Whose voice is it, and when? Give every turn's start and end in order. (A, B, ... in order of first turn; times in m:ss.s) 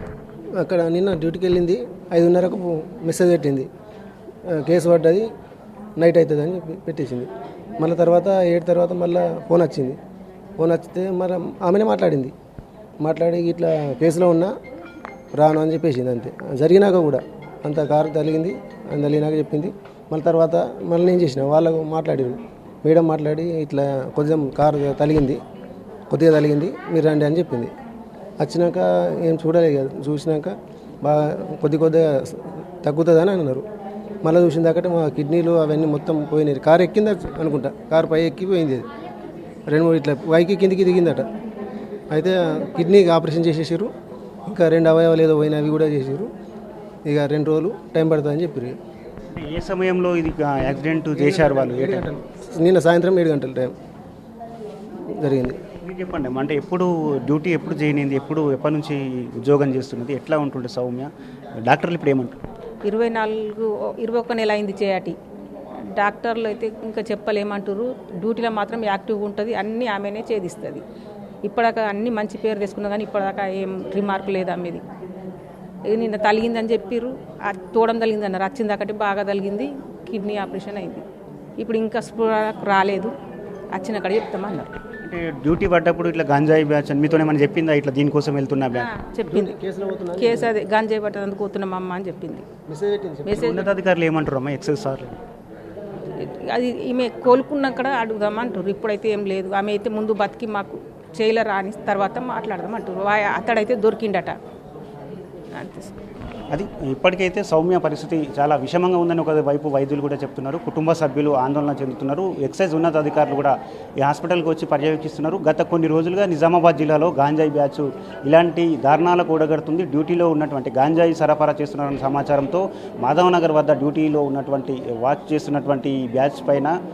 0:00.6-0:03.7 A
0:04.5-0:05.3 A
0:06.0-0:10.0 A
0:10.6-0:12.3 A
0:13.0-0:14.5 A
0:15.3-0:25.4 A
0:26.1-0:27.7 A
0:28.4-0:33.6 A
0:34.2-0:38.9 A
0:39.7-0:41.3 A
0:42.1-0:43.9 A
0:42.3-0:43.1 B
0:44.5-0:46.3 A
0:47.1-0:48.8 A
0:49.4-0:52.1 C
0:51.2-0:53.7 A
0:55.2-0:55.6 A
0:55.8-1:02.4 C
1:02.8-1:05.2 B
1:05.8-1:10.8 B
1:11.4-1:14.8 B
1:15.9-1:21.0 B
1:21.6-1:23.1 B
1:23.7-1:24.8 B
1:25.0-1:28.9 C
1:28.7-1:29.5 B
1:29.3-1:30.5 A
1:30.2-1:32.5 B
1:32.7-1:33.4 A
1:33.3-1:33.7 B
1:33.3-1:35.2 C
1:36.2-1:44.4 B
1:45.6-1:45.9 B
1:46.5-2:06.8 C